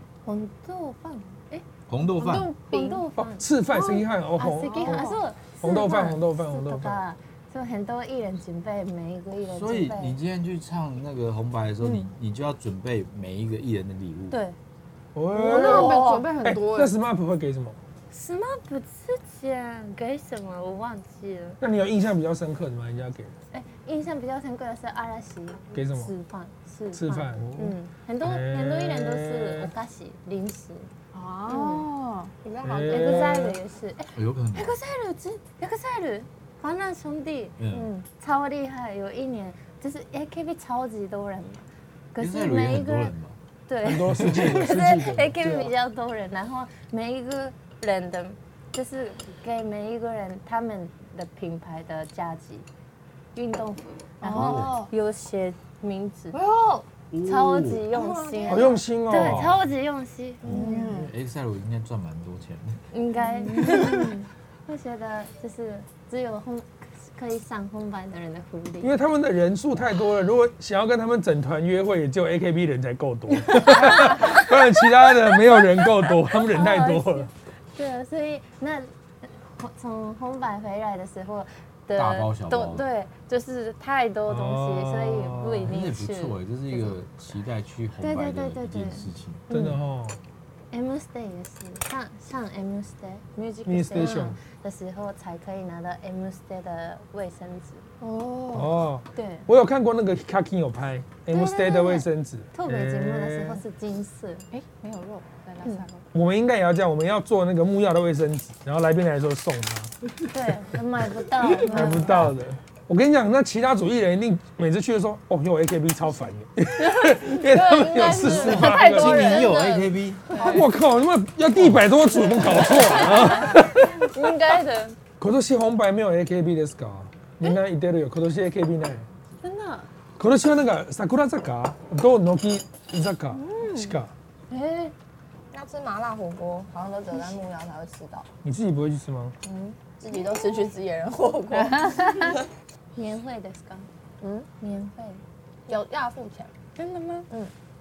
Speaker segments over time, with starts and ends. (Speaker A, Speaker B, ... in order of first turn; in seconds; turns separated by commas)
Speaker A: 0.2-1.6, Speaker B: 1.9-2.5, Speaker C: 2.2-3.1, Speaker A: 2.3-3.5, Speaker D: 3.2-7.0, Speaker C: 3.7-5.2, Speaker A: 4.4-10.2, Speaker B: 9.5-14.4, Speaker A: 14.3-14.6, Speaker D: 15.1-17.8, Speaker C: 15.3-16.9, Speaker A: 15.5-16.2, Speaker A: 18.1-21.6, Speaker D: 21.6-23.3, Speaker A: 23.5-30.9, Speaker D: 25.7-26.1, Speaker D: 26.9-29.7, Speaker C: 31.1-32.3, Speaker A: 31.5-31.9, Speaker E: 32.4-33.2, Speaker D: 32.6-33.6, Speaker A: 32.8-43.1, Speaker C: 32.9-33.5, Speaker B: 34.1-34.8, Speaker B: 37.6-37.9, Speaker B: 42.2-43.4, Speaker A: 43.7-52.7, Speaker D: 43.8-45.7, Speaker A: 53.3-56.4, Speaker C: 54.2-54.9, Speaker B: 54.3-54.8, Speaker E: 56.3-56.8, Speaker B: 57.1-57.9, Speaker A: 57.2-60.8, Speaker E: 57.9-58.8, Speaker D: 58.5-59.6, Speaker B: 59.1-59.6, Speaker B: 60.4-62.8, Speaker C: 60.5-61.1, Speaker E: 60.5-60.8, Speaker A: 62.9-68.9, Speaker C: 63.2-64.2, Speaker D: 68.8-77.3, Speaker A: 73.6-74.5, Speaker A: 76.5-87.0, Speaker B: 81.9-82.9, Speaker D: 84.3-85.7, Speaker B: 85.7-89.4, Speaker A: 88.0-89.8, Speaker D: 89.5-90.2, Speaker A: 90.7-97.8, Speaker D: 93.7-94.4, Speaker C: 98.0-98.7, Speaker D: 98.5-103.6, Speaker A: 99.1-99.5, Speaker A: 101.3-104.5, Speaker C: 104.5-106.0, Speaker D: 106.1-109.9, Speaker A: 110.3-112.3, Speaker D: 111.4-119.4, Speaker C: 111.8-112.3, Speaker A: 116.9-119.5, Speaker B: 118.2-120.3, Speaker C: 118.2-119.6, Speaker E: 119.5-119.9, Speaker A: 120.3-120.7, Speaker C: 120.3-120.7, Speaker D: 120.4-124.1, Speaker B: 121.5-121.9, Speaker A: 122.6-125.0, Speaker D: 125.2-129.1, Speaker A: 129.4-129.8, Speaker C: 129.4-129.8, Speaker D: 130.2-134.1, Speaker C: 133.3-133.9, Speaker A: 134.5-134.9, Speaker E: 135.5-138.3, Speaker D: 138.4-139.3, Speaker E: 139.4-142.1, Speaker C: 141.5-142.3, Speaker A: 142.9-143.9, Speaker E: 144.2-144.5, Speaker A: 144.6-145.2, Speaker E: 145.7-146.5, Speaker A: 146.8-147.3